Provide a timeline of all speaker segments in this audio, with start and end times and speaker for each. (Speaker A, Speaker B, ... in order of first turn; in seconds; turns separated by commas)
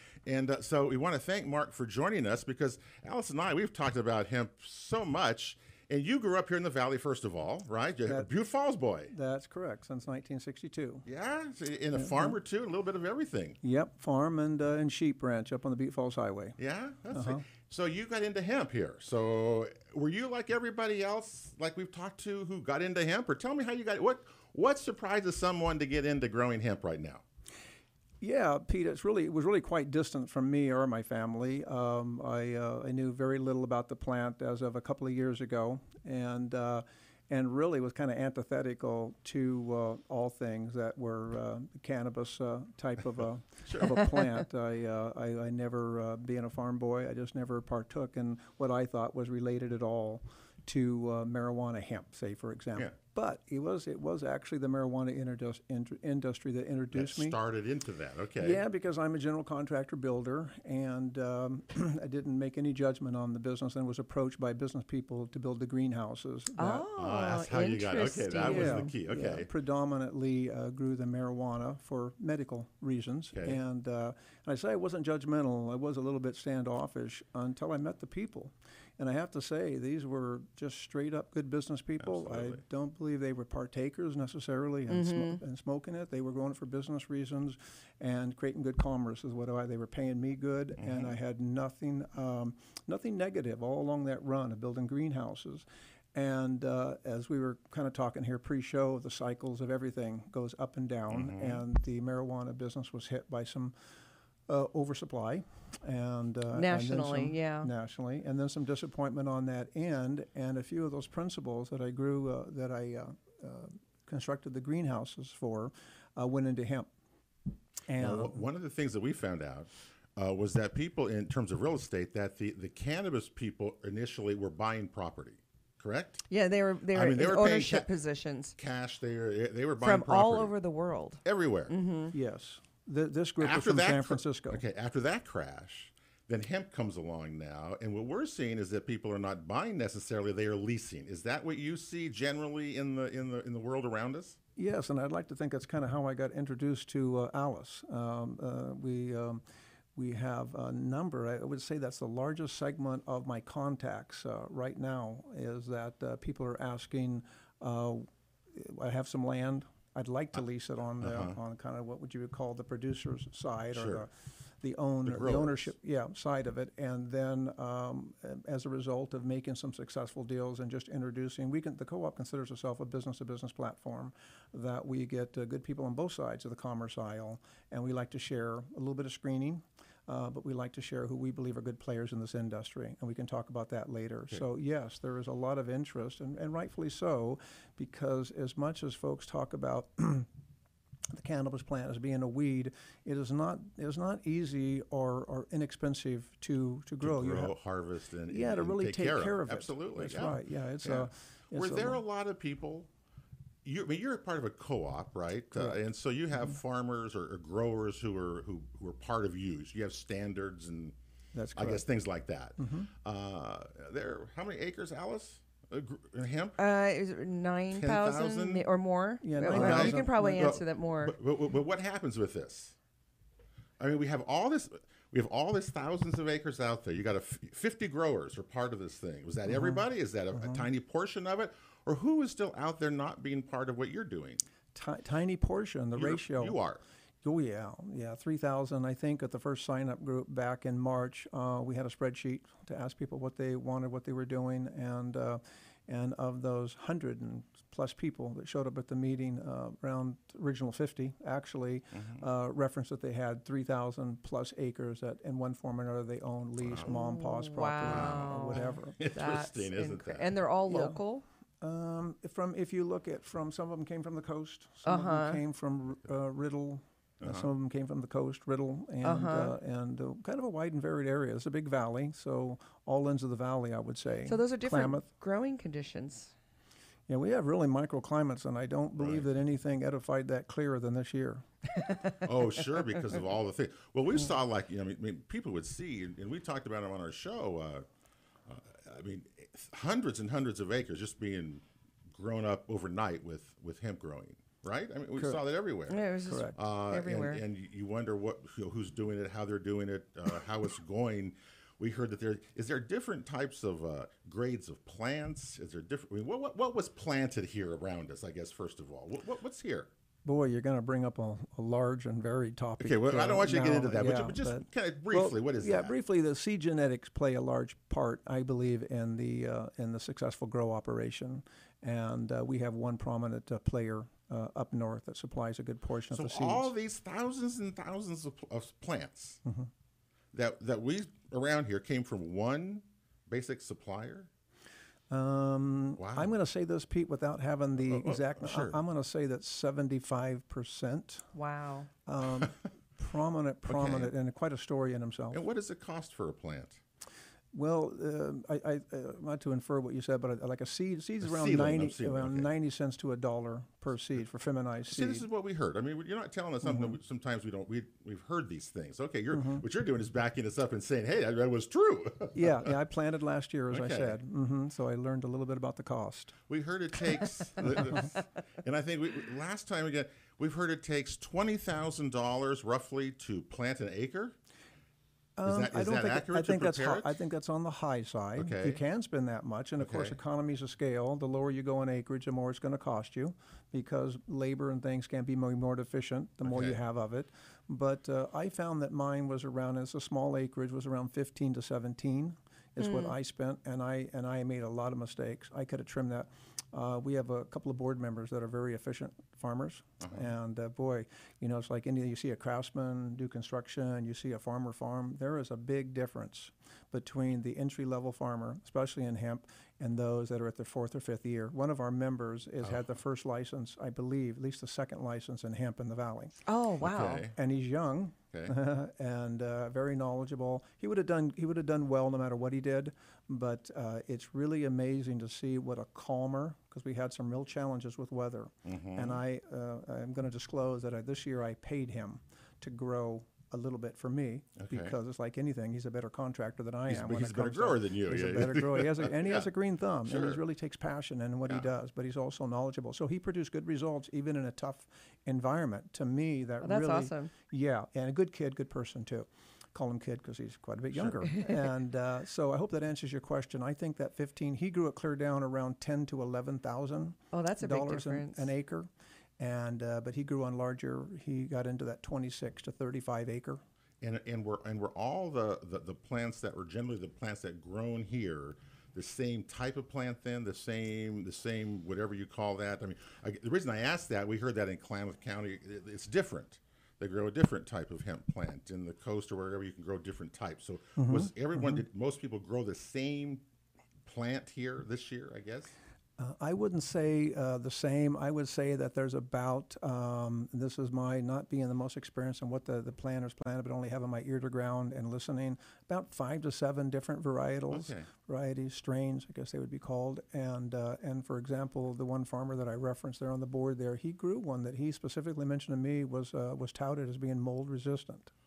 Speaker A: 0.2-9.1, Speaker B: 9.1-11.1, Speaker A: 11.1-13.6, Speaker B: 11.9-12.4, Speaker B: 13.6-16.6, Speaker A: 16.6-27.2, Speaker B: 17.1-17.4, Speaker B: 28.2-57.4, Speaker A: 43.6-43.9, Speaker A: 56.9-58.6, Speaker B: 58.4-66.9, Speaker C: 66.6-68.9, Speaker A: 67.0-69.5, Speaker B: 68.4-103.7, Speaker A: 73.3-73.6, Speaker A: 82.0-82.6, Speaker C: 84.9-85.4, Speaker A: 90.8-91.1, Speaker A: 101.1-101.6, Speaker B: 104.5-116.9, Speaker C: 106.5-107.7, Speaker B: 117.9-118.4, Speaker A: 118.0-126.2, Speaker C: 126.3-128.6, Speaker A: 126.9-127.9, Speaker A: 128.6-130.5, Speaker C: 129.8-132.1, Speaker A: 131.2-131.7, Speaker B: 132.1-134.6, Speaker A: 133.4-144.4, Speaker B: 144.6-149.4, Speaker B: 149.9-190.3, Speaker A: 161.0-161.4, Speaker A: 163.7-164.0, Speaker A: 165.1-165.7, Speaker B: 191.1-197.5, Speaker A: 197.0-202.9, Speaker B: 198.3-202.0, Speaker A: 203.6-210.9, Speaker B: 205.5-205.8, Speaker B: 211.3-211.8, Speaker A: 211.5-216.6, Speaker B: 212.6-212.9, Speaker C: 216.6-221.2, Speaker A: 217.7-218.7, Speaker B: 219.2-220.6, Speaker A: 219.5-222.8, Speaker A: 223.8-234.4, Speaker B: 229.5-230.6, Speaker B: 234.7-236.6, Speaker A: 235.9-236.8, Speaker B: 237.2-259.0, Speaker A: 251.9-252.2, Speaker A: 256.6-256.9, Speaker C: 256.9-261.2, Speaker A: 257.9-260.3, Speaker B: 260.7-261.0, Speaker B: 261.6-275.1, Speaker C: 264.8-265.4, Speaker A: 267.2-267.5, Speaker C: 269.0-269.6, Speaker C: 274.2-276.3, Speaker B: 277.1-281.5, Speaker A: 279.0-279.3, Speaker A: 282.2-287.9, Speaker A: 288.5-309.9, Speaker B: 295.2-295.4, Speaker C: 295.9-297.4, Speaker B: 296.2-296.5, Speaker B: 310.2-326.7, Speaker A: 312.8-315.9, Speaker A: 326.1-329.4, Speaker B: 329.4-329.7, Speaker A: 330.3-334.3, Speaker B: 335.1-341.3, Speaker A: 336.0-336.3, Speaker A: 337.8-338.8, Speaker C: 341.3-341.9, Speaker B: 342.1-345.4, Speaker A: 343.7-344.1, Speaker A: 345.3-346.8, Speaker B: 347.5-355.2, Speaker A: 351.2-352.5, Speaker A: 354.9-362.7, Speaker B: 356.6-357.0, Speaker B: 359.3-359.6, Speaker B: 362.4-366.4, Speaker A: 363.7-364.2, Speaker A: 366.5-374.4, Speaker B: 367.6-368.0, Speaker B: 375.4-416.4, Speaker A: 375.4-377.2, Speaker A: 378.4-378.8, Speaker A: 379.8-380.2, Speaker A: 386.4-386.8, Speaker C: 392.8-393.1, Speaker A: 400.0-400.2, Speaker C: 416.5-417.2, Speaker A: 416.8-417.3, Speaker B: 417.3-463.6, Speaker A: 428.6-429.2, Speaker A: 434.6-434.9, Speaker A: 436.9-439.5, Speaker A: 440.1-440.4, Speaker C: 446.6-447.3, Speaker A: 450.9-451.3, Speaker C: 457.3-458.5, Speaker A: 464.0-483.4, Speaker B: 480.9-481.8, Speaker A: 484.1-485.7, Speaker B: 486.2-508.3, Speaker A: 497.7-498.1